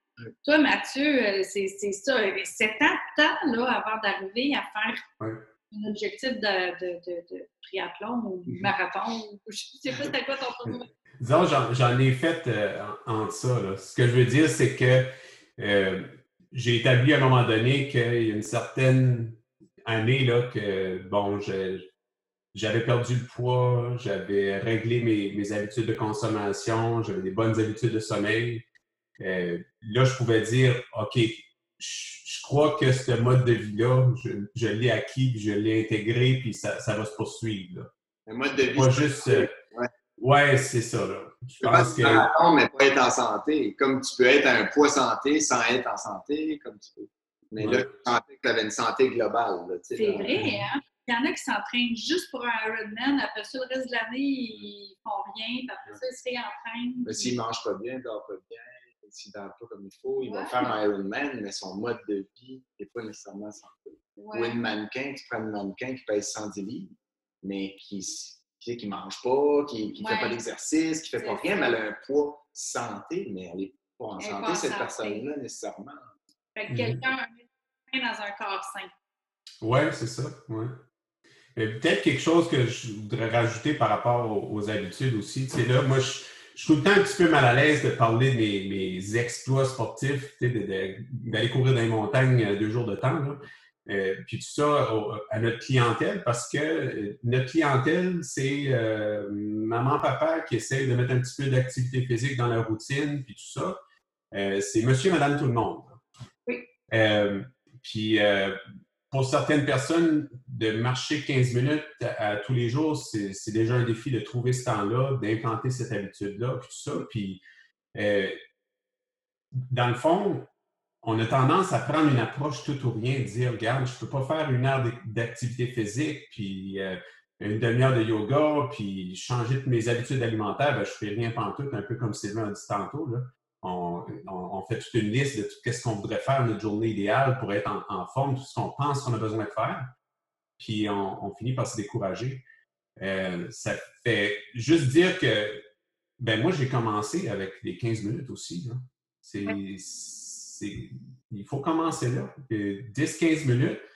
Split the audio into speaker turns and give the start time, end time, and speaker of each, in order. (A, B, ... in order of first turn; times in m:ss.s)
0:00.4-0:05.0 A
0:05.2-0:05.4 B
0:05.7-0:10.9 A
0:11.2-0:21.9 B
0:22.5-0:28.6 B
0:29.2-0:37.9 B
0:38.2-0:39.9 C
0:38.7-0:39.5 B
0:40.2-0:42.3 B
0:41.6-0:50.4 C
0:47.6-0:47.9 B
0:50.0-0:57.4 A
0:50.3-0:50.6 B
0:57.0-1:16.1 C
1:00.2-1:00.8 A
1:04.2-1:04.6 A
1:10.0-1:10.4 A
1:11.2-1:11.8 A
1:14.2-1:15.2 A
1:16.5-1:18.9 A
1:16.7-1:17.0 B
1:19.6-1:20.8 B
1:21.6-1:43.8 B
1:44.3-1:46.0 B
1:46.9-1:48.6 B
1:49.1-1:57.4 B
1:57.9-1:58.4 B
1:59.7-2:00.5 B
2:01.0-2:19.9 B
2:20.6-2:22.4 B
2:23.0-2:25.6 B
2:26.2-2:33.8 B